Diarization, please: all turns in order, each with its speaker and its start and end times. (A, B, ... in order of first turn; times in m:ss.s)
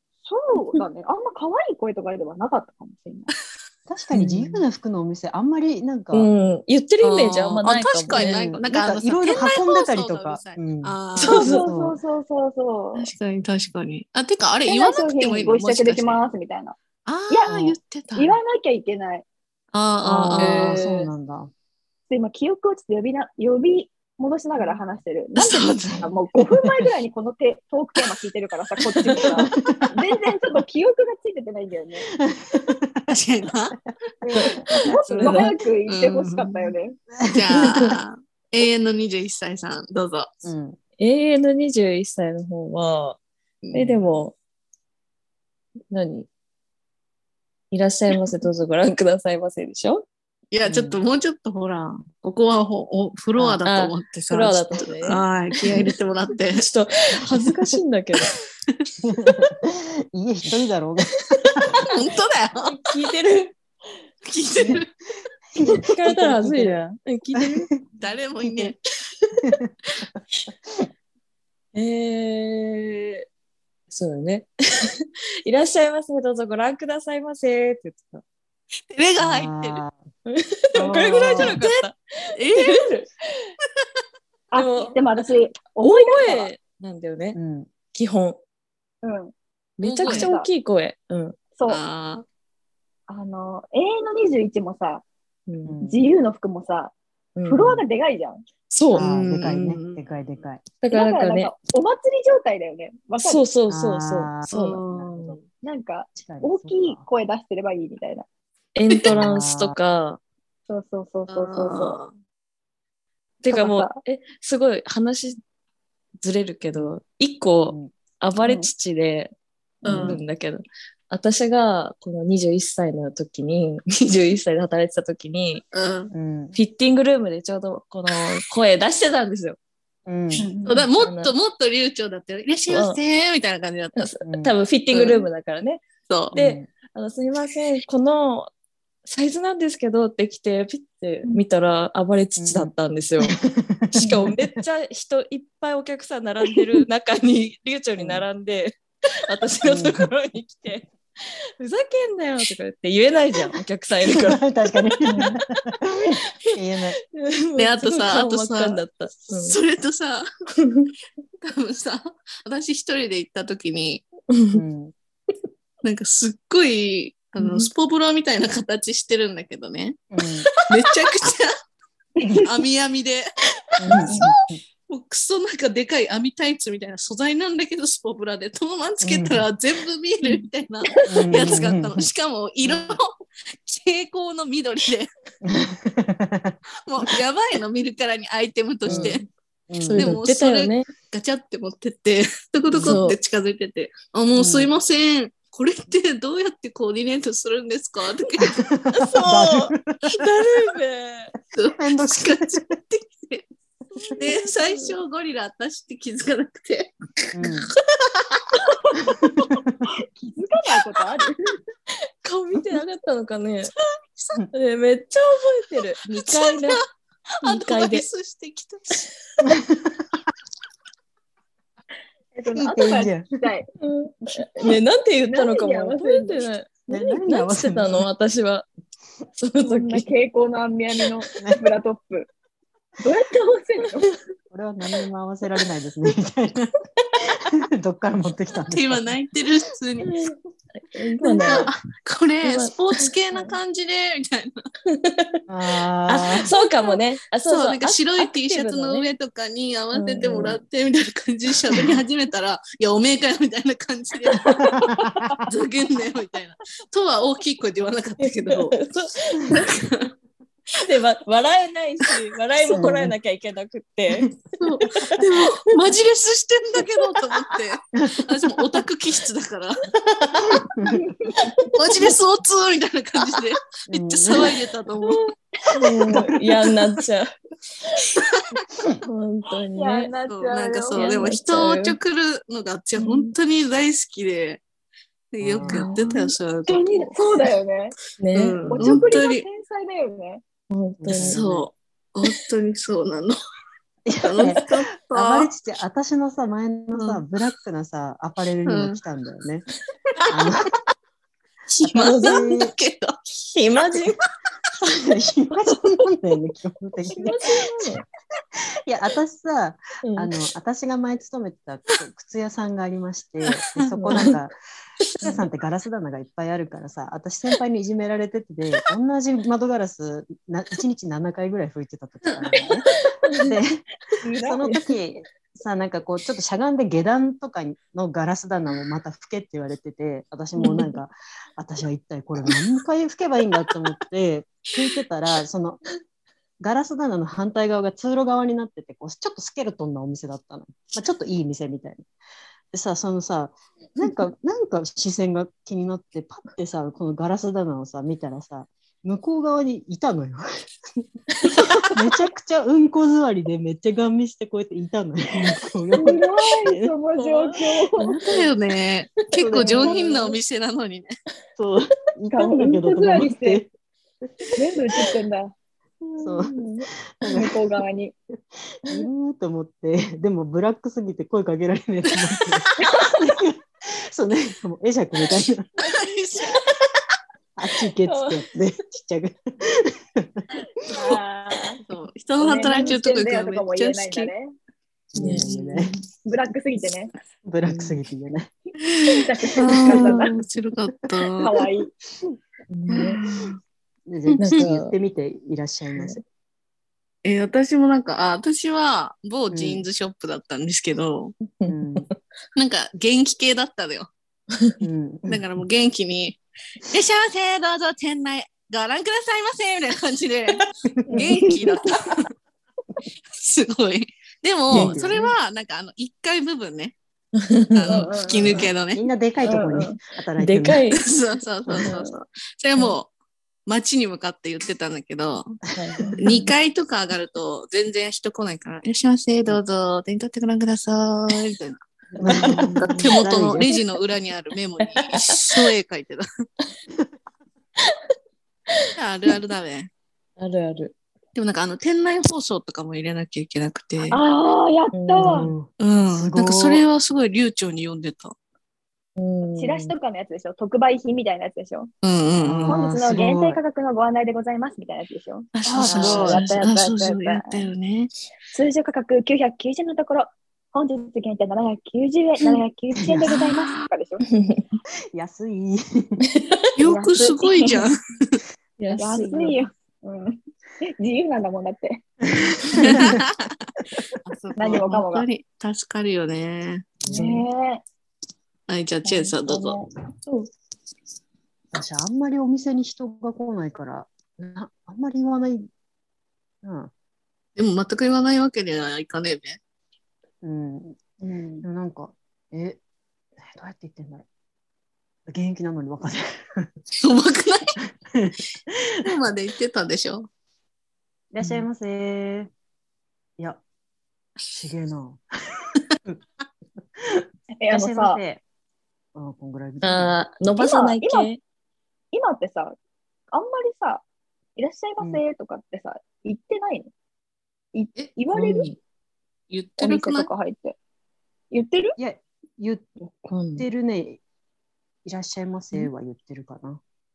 0:00.2-0:03.3 A
0:03.9-0:06.3 B
0:04.1-0:04.6 C
0:06.1-0:08.4 C
0:07.0-0:11.4 D
0:08.1-0:12.0 B
0:11.2-0:11.7 C
0:11.2-0:13.1 A
0:12.9-0:16.2 D
0:14.6-0:16.8 A
0:17.0-0:18.4 D
0:17.5-0:17.8 B
0:18.2-0:19.2 A
0:19.7-0:20.7 D
0:20.0-0:21.5 B
0:20.4-0:21.1 C
0:22.1-0:32.1 A
0:25.4-0:26.0 D
0:25.9-0:26.7 B
0:29.5-0:29.9 B
0:32.2-0:33.1 B
0:33.1-0:33.8 D
0:34.2-0:37.0 A
0:34.4-0:34.6 B
0:35.1-0:36.7 D
0:35.2-0:35.5 C
0:37.2-0:37.9 B
0:37.3-0:40.4 D
0:37.6-0:37.9 C
0:40.4-0:40.8 B
0:41.0-0:43.2 C
0:43.7-0:44.3 C
0:45.9-0:46.3 C
0:47.7-0:50.0 C
0:50.5-0:56.6 D
0:50.6-0:51.0 B
0:53.6-0:55.9 C
0:56.5-0:58.4 C
0:58.3-0:58.8 D
0:59.0-1:01.8 B
1:01.3-1:01.8 C
1:01.9-1:02.8 D
1:02.6-1:03.6 C
1:04.2-1:04.9 D
1:05.5-1:06.8 B
1:05.6-1:07.7 C
1:07.4-1:07.8 B
1:08.0-1:08.8 D
1:11.7-1:13.2 C
1:13.9-1:18.2 C
1:18.9-1:19.8 D
1:19.2-1:20.0 B
1:20.2-1:23.5 C
1:20.7-1:21.6 B
1:20.9-1:21.8 D
1:22.4-1:22.9 D
1:24.5-1:26.5 A
1:24.5-1:25.0 C
1:25.8-1:27.4 C
1:27.3-1:27.7 B
1:27.9-1:28.4 C
1:29.0-1:29.3 A
1:29.8-1:30.3 D
1:29.8-1:31.4 C
1:30.0-1:30.5 A
1:31.6-1:31.8 A
1:31.7-1:32.2 D
1:33.1-1:35.0 A
1:35.5-1:35.8 C
1:35.6-1:36.0 B
1:35.8-1:36.9 A
1:37.4-1:37.8 C
1:37.4-1:38.4 A
1:38.7-1:39.0 C
1:38.9-1:40.6 B
1:39.0-1:40.0 D
1:40.8-1:41.5 C
1:40.9-1:43.4 A
1:43.2-1:44.8 C
1:43.7-1:45.4 B
1:44.5-1:45.4 D
1:45.6-1:48.2 A
1:46.1-1:47.0 B
1:48.7-1:50.2 C
1:49.1-1:49.7 B
1:50.7-1:52.0 A
1:51.3-1:52.1 D
1:53.4-1:55.4 C
1:53.5-1:54.0 A
1:56.2-2:05.6 C
1:57.6-1:57.9 B
1:58.4-1:58.7 A
1:59.8-2:00.2 D
1:59.9-2:00.2 B
2:05.7-2:06.1 D
2:06.1-2:06.6 B
2:06.5-2:09.6 C
2:10.0-2:10.5 B
2:10.4-2:10.9 A
2:10.6-2:14.0 D
2:11.0-2:11.3 C
2:12.7-2:13.0 C
2:14.0-2:18.5 C
2:14.2-2:14.5 B
2:14.9-2:15.2 D
2:16.1-2:16.3 D
2:16.3-2:16.7 B
2:19.0-2:23.4 C
2:22.4-2:22.7 B
2:23.2-2:24.4 B
2:24.0-2:36.2 C
2:28.0-2:28.2 B
2:29.6-2:30.1 B
2:34.0-2:37.0 B
2:37.1-2:39.6 C
2:37.6-2:40.2 D
2:40.6-2:40.9 C
2:41.4-2:44.0 D
2:44.3-2:44.6 C
2:44.5-2:44.9 B
2:45.8-2:50.0 D
2:50.1-2:50.5 B
2:50.4-2:50.8 C
2:50.7-2:51.5 D
2:52.2-2:52.5 A
2:52.4-2:53.2 D
2:53.8-2:54.6 B
2:53.8-2:54.2 C
2:54.9-3:05.1 D
2:59.0-2:59.4 B
3:00.9-3:01.3 A
3:01.1-3:02.0 B
3:02.6-3:03.0 B
3:05.4-3:06.6 B
3:06.8-3:09.3 D
3:08.8-3:09.2 B
3:08.9-3:09.2 C
3:09.7-3:10.1 B
3:09.9-3:18.6 D
3:10.0-3:10.9 C
3:12.7-3:13.0 B
3:12.8-3:13.2 C
3:14.4-3:14.7 B
3:18.4-3:20.0 B
3:18.9-3:21.3 C
3:21.5-3:23.4 D
3:21.8-3:22.6 B
3:24.0-3:24.9 C
3:24.1-3:28.6 D
3:27.3-3:27.7 B
3:28.6-3:29.0 A
3:29.1-3:29.8 B
3:30.1-3:31.6 A
3:32.2-3:33.7 C
3:33.8-3:34.4 D
3:34.5-3:36.8 C
3:36.2-3:36.8 D
3:37.4-3:38.0 C
3:37.4-3:39.0 D
3:39.4-3:40.0 B
3:42.3-3:43.7 A
3:42.5-3:43.3 B
3:43.8-3:48.7 C
3:44.3-3:46.4 A
3:46.9-3:48.0 B
3:49.4-3:50.1 C
3:49.6-3:52.3 A
3:51.4-3:51.6 B
3:53.0-3:54.1 A
3:54.5-3:59.1 B
3:58.7-4:00.1 D
4:00.0-4:01.7 C
4:01.4-4:04.5 D
4:02.4-4:03.6 C
4:04.9-4:05.4 C
4:05.5-4:06.5 B
4:06.1-4:09.1 C
4:07.4-4:14.7 D
4:09.9-4:10.6 C
4:14.6-4:15.4 B
4:15.4-4:18.8 D
4:18.2-4:19.7 C
4:19.5-4:20.1 D
4:20.8-4:25.6 C
4:22.6-4:23.1 B
4:24.6-4:29.9 D
4:28.0-4:28.3 B
4:30.2-4:31.0 B
4:30.4-4:30.7 C
4:30.9-4:31.3 A
4:31.4-4:32.1 C
4:31.7-4:35.3 D
4:33.9-4:34.6 B
4:35.7-4:37.3 C
4:39.0-4:40.1 C
4:39.7-4:41.1 A
4:40.3-4:44.6 D
4:40.9-4:42.0 C
4:43.0-4:43.3 C
4:45.3-4:47.1 D
4:45.4-4:45.8 B
4:45.7-4:46.1 C
4:46.7-4:47.9 A
4:48.2-4:48.7 C
4:48.3-4:49.4 D
4:48.7-4:49.1 B
4:48.7-4:50.4 A
4:50.7-4:51.4 C
4:51.0-4:51.6 B
4:51.1-4:53.3 D
4:54.0-4:59.6 B
4:54.2-4:55.5 D
4:56.9-4:57.2 D
4:58.6-4:59.0 D
5:00.3-5:00.7 B
5:01.7-5:03.2 D
5:01.8-5:02.7 B
5:02.0-5:02.4 C
5:03.4-5:04.2 C
5:04.9-5:07.6 B
5:07.1-5:08.0 C
5:08.8-5:14.5 B
5:10.0-5:10.3 C
5:13.9-5:14.4 C
5:15.2-5:35.8 B
5:22.5-5:23.5 C
5:24.2-5:24.7 A
5:30.6-5:30.9 C
5:36.6-5:42.0 B
5:42.7-5:50.4 B
5:51.4-5:51.9 C
5:51.5-5:56.9 B
5:56.0-5:58.2 A
5:57.2-5:58.4 C
5:58.1-6:01.1 D
5:59.4-6:00.1 B
5:59.6-6:00.3 A
6:01.6-6:03.7 B
6:02.3-6:03.6 A
6:04.5-6:05.5 A
6:06.0-6:06.9 C
6:06.2-6:07.5 B
6:07.3-6:08.1 A
6:08.7-6:15.7 B
6:15.8-6:16.8 D
6:17.6-6:21.1 B
6:18.0-6:18.4 C
6:20.9-6:21.8 A
6:21.9-6:24.3 D
6:22.4-6:24.5 A
6:25.1-6:25.9 B
6:25.2-6:25.5 C
6:25.2-6:25.5 D
6:26.2-6:27.1 A
6:27.4-6:28.5 B
6:27.6-6:28.0 C
6:28.8-6:31.4 D
6:29.0-6:30.3 A
6:29.8-6:30.3 B
6:31.4-6:31.9 A
6:32.7-6:33.2 C
6:33.2-6:33.5 D
6:34.1-6:36.2 B
6:34.3-6:34.6 D
6:34.4-6:34.9 C
6:37.2-6:41.3 D
6:39.5-6:39.8 B
6:41.6-6:42.1 C
6:41.6-6:42.1 B
6:42.6-6:44.1 D
6:44.8-6:45.4 B
6:45.3-6:52.3 D
6:51.1-6:52.2 A
6:53.3-6:57.0 D
6:54.7-6:55.2 B
6:54.7-6:55.2 C
6:57.4-6:58.0 C
6:57.7-6:59.0 D
6:57.9-6:58.7 A
6:58.9-7:00.8 B
6:59.4-7:00.0 A
7:00.4-7:01.0 C
7:01.0-7:03.1 D
7:01.8-7:02.1 A
7:03.7-7:05.6 D
7:05.7-7:06.5 C
7:06.2-7:16.2 D
7:12.2-7:13.8 C
7:12.2-7:13.7 B
7:15.0-7:15.6 C
7:19.0-7:19.9 D
7:20.4-7:20.9 C
7:21.3-7:24.2 D
7:24.1-7:25.5 A
7:24.9-7:25.5 C
7:25.2-7:26.8 B
7:25.8-7:28.4 D
7:29.2-7:29.9 C
7:29.6-7:31.9 A
7:32.0-7:32.8 D
7:32.4-7:33.6 B
7:32.6-7:37.6 A
7:35.5-7:38.1 D
7:35.7-7:36.4 B
7:38.5-7:44.2 A
7:43.0-7:43.4 B
7:45.1-7:46.2 B
7:46.8-7:48.4 D
7:46.8-7:47.8 A
7:48.8-7:49.6 C
7:49.0-7:52.0 A
7:52.3-7:53.2 B
7:52.8-7:53.5 D
7:54.2-7:57.0 D
7:54.6-7:55.2 A
7:57.1-7:57.4 B
7:57.1-7:57.8 A
7:58.7-7:59.8 D
7:59.0-7:59.8 A
8:01.7-8:05.7 B
8:06.6-8:06.9 B
8:07.6-8:09.6 D
8:10.4-8:11.0 B
8:11.2-8:11.7 A
8:11.6-8:12.8 B
8:13.4-8:14.2 B
8:15.3-8:16.7 B
8:17.0-8:17.7 D
8:17.8-8:19.0 B
8:19.0-8:20.3 D
8:21.3-8:22.5 B
8:21.4-8:21.7 C
8:24.5-8:25.2 B
8:27.0-8:28.4 B
8:27.6-8:28.2 A
8:29.1-8:30.1 B
8:29.8-8:31.4 C
8:30.6-8:31.3 A
8:32.1-8:32.8 A
8:33.3-8:34.0 A
8:34.6-8:36.9 A
8:37.7-8:38.7 A
8:38.3-8:38.8 C
8:39.5-8:40.3 D
8:39.8-8:40.8 A
8:41.5-8:42.0 A
8:42.0-8:44.2 B
8:43.2-8:43.7 C
8:45.0-8:46.8 B